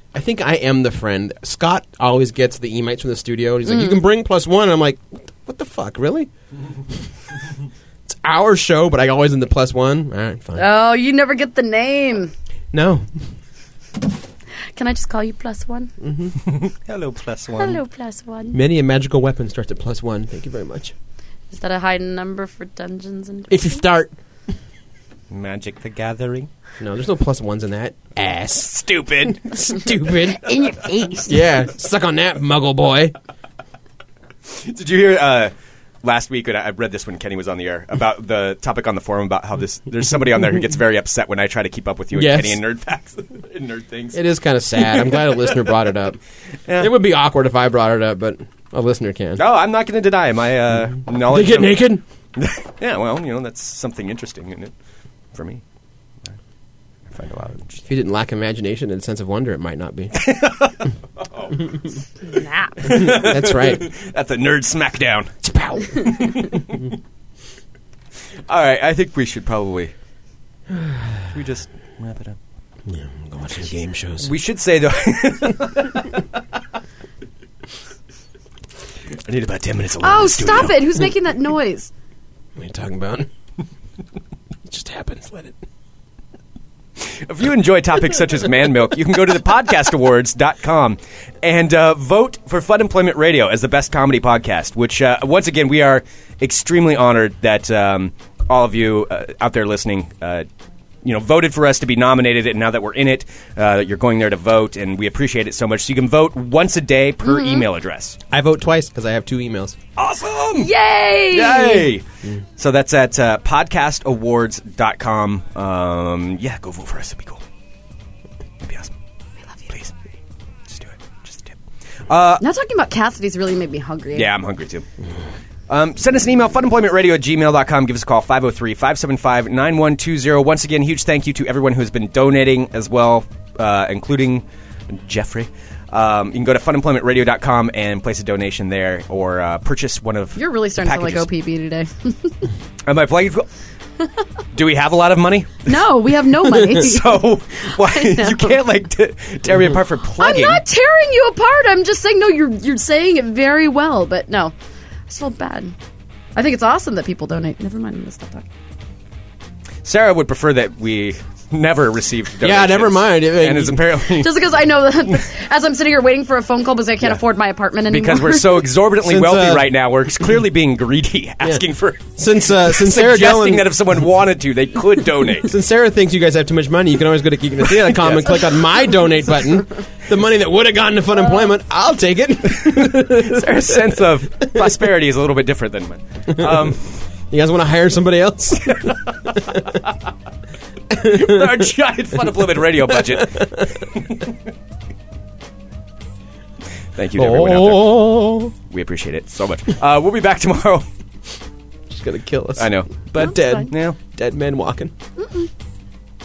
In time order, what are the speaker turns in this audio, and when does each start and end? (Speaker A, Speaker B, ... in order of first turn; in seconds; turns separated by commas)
Speaker A: 0.1-6.3, Speaker B: 3.6-4.0, Speaker A: 8.1-10.6, Speaker B: 10.5-12.3, Speaker A: 12.7-13.1, Speaker B: 14.8-15.9, Speaker A: 16.0-16.4, Speaker C: 16.4-17.8, Speaker B: 17.5-18.6, Speaker A: 18.5-20.9, Speaker B: 21.5-23.8, Speaker A: 23.5-24.1, Speaker C: 25.3-26.5, Speaker A: 26.8-30.4, Speaker C: 28.6-29.9, Speaker B: 30.3-31.4, Speaker A: 31.2-33.1, Speaker C: 34.5-44.2, Speaker A: 42.1-42.6, Speaker A: 44.1-46.2, Speaker C: 44.8-45.5, Speaker A: 46.8-49.4, Speaker C: 49.4-54.7, Speaker A: 51.2-52.0, Speaker C: 55.3-55.6, Speaker C: 57.1-57.8, Speaker A: 57.8-60.2, Speaker C: 60.1-61.6, Speaker B: 62.3-62.8, Speaker C: 62.8-66.6, Speaker A: 62.8-63.8, Speaker A: 65.4-66.1, Speaker C: 68.5-69.9, Speaker C: 71.3-72.4, Speaker A: 72.9-74.3, Speaker C: 74.2-76.2, Speaker C: 79.2-80.9, Speaker B: 80.0-81.9, Speaker A: 82.5-83.3, Speaker A: 84.7-85.5, Speaker C: 87.0-100.5, Speaker C: 101.0-108.2, Speaker B: 107.2-107.6, Speaker A: 108.3-109.8, Speaker C: 110.0-110.7, Speaker B: 110.5-111.9, Speaker C: 111.3-112.0, Speaker C: 112.6-117.4, Speaker C: 118.6-118.9, Speaker C: 119.7-119.9, Speaker C: 120.7-121.6, Speaker C: 122.1-122.4, Speaker B: 122.4-124.3, Speaker C: 124.1-124.8, Speaker C: 125.7-141.3, Speaker B: 140.3-142.4, Speaker C: 142.8-143.5, Speaker C: 144.5-145.8, Speaker B: 145.7-148.6, Speaker C: 146.5-150.6, Speaker B: 150.2-154.5, Speaker B: 155.1-155.7, Speaker B: 156.3-158.5, Speaker C: 159.8-164.4, Speaker A: 162.4-163.9, Speaker B: 164.1-168.6, Speaker C: 167.9-175.5, Speaker A: 169.0-169.7, Speaker A: 172.1-173.7, Speaker A: 175.4-183.6, Speaker C: 177.6-178.6, Speaker C: 182.6-186.9, Speaker A: 186.4-186.7, Speaker A: 187.3-188.7, Speaker C: 188.6-189.9, Speaker C: 190.9-194.4, Speaker C: 196.9-200.8, Speaker A: 197.1-198.5, Speaker A: 201.9-204.9, Speaker C: 202.6-204.0, Speaker B: 203.2-203.7, Speaker B: 205.2-205.5